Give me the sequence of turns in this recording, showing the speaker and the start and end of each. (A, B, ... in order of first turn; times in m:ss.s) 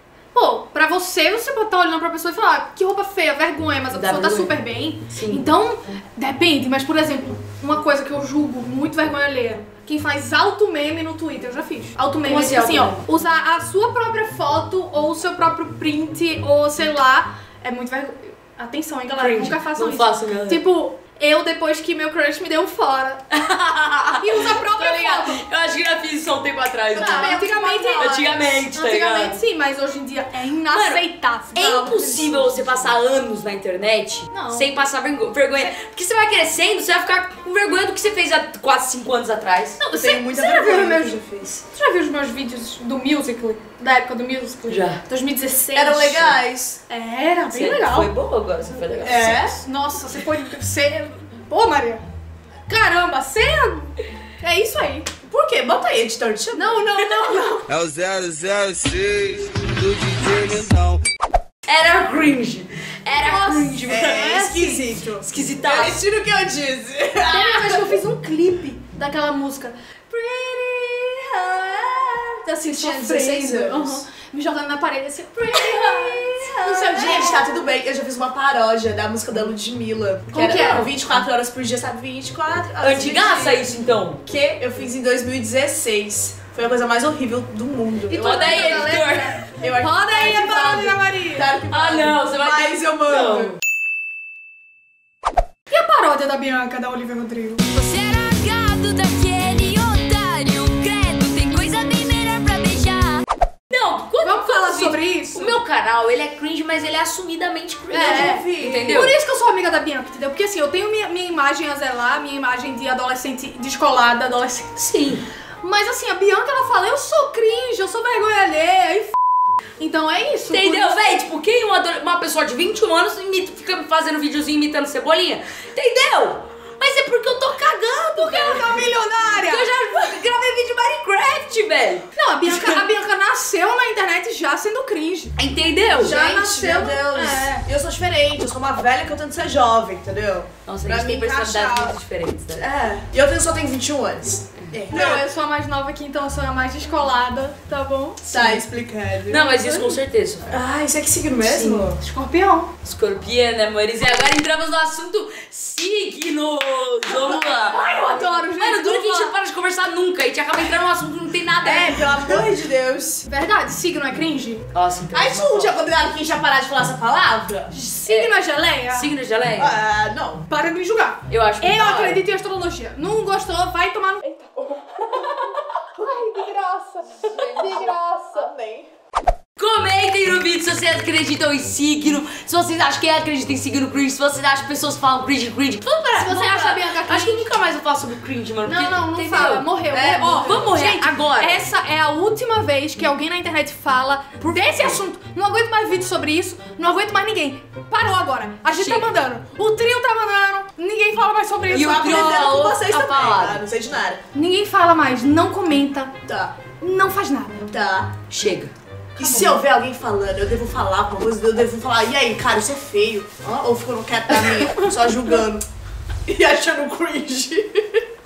0:00.3-0:23.3 A
0:03.9-0:04.5 B
0:05.1-0:05.4 B
0:12.2-0:13.0 B
0:19.1-0:20.6 B
0:23.4-0:29.4 B
0:24.1-0:25.4 A
0:26.9-0:32.9 A
0:26.9-0:28.2 C
0:30.7-0:31.0 B
0:31.5-0:39.8 B
0:34.3-0:34.7 A
0:39.8-0:48.1 A
0:39.9-0:41.5 C
0:44.7-0:45.0 B
0:45.7-0:46.8 C
0:47.5-0:49.5 B
0:49.0-0:52.0 A
0:49.0-0:49.5 C
0:52.7-0:55.1 A
0:55.2-0:56.8 C
0:56.5-0:57.8 A
0:57.8-1:01.0 D
1:01.7-1:04.4 B
1:03.1-1:04.9 A
1:03.9-1:08.0 C
1:05.2-1:06.0 B
1:07.3-1:09.7 A
1:10.1-1:14.0 C
1:12.4-1:17.5 A
1:15.5-1:17.0 B
1:15.8-1:23.6 C
1:20.3-1:20.9 A
1:22.8-1:24.2 B
1:24.2-1:28.7 C
1:28.1-1:31.5 A
1:28.1-1:29.4 B
1:29.6-1:33.5 C
1:31.7-1:33.6 B
1:35.7-1:37.6 A
1:37.7-1:49.1 B
1:44.2-1:45.6 A
1:47.9-1:49.0 C
1:47.9-1:54.7 A
1:54.8-1:55.2 B
1:55.6-1:59.1 A
1:59.8-2:01.2 A
2:00.5-2:12.7 B
2:08.1-2:09.7 A
2:12.1-2:15.3 A
2:15.4-2:16.2 B
2:16.0-2:17.6 A
2:16.0-2:21.9 C
2:20.6-2:22.6 B
2:22.6-2:25.2 C
2:24.9-2:28.2 A
2:28.3-2:28.6 B
2:28.3-2:29.6 C
2:29.3-2:30.5 B
2:29.6-2:29.9 A
2:30.5-2:32.0 C
2:31.4-2:31.9 B
2:32.0-2:32.7 A
2:32.8-2:42.3 B
2:37.1-2:39.4 A
2:41.6-2:43.2 C
2:43.2-2:44.6 A
2:44.7-2:45.7 B
2:45.1-2:47.7 C
2:47.7-2:49.1 A
2:48.0-2:49.8 B
2:49.6-2:50.4 C
2:50.5-2:58.5 A
2:51.3-2:52.2 B
2:57.2-2:58.9 C
2:59.6-3:09.8 B
3:06.1-3:07.5 A
3:08.6-3:23.0 A
3:09.9-3:10.7 C
3:10.3-3:11.6 B
3:14.4-3:15.0 B
3:18.7-3:19.1 B
3:21.7-3:24.2 C
3:21.7-3:23.6 B
3:24.3-3:26.1 A
3:26.3-3:26.7 C
3:26.7-3:27.7 A
3:27.7-3:28.1 C
3:28.3-3:28.7 B
3:29.2-3:35.6 C
3:29.2-3:29.6 A
3:36.2-3:38.0 C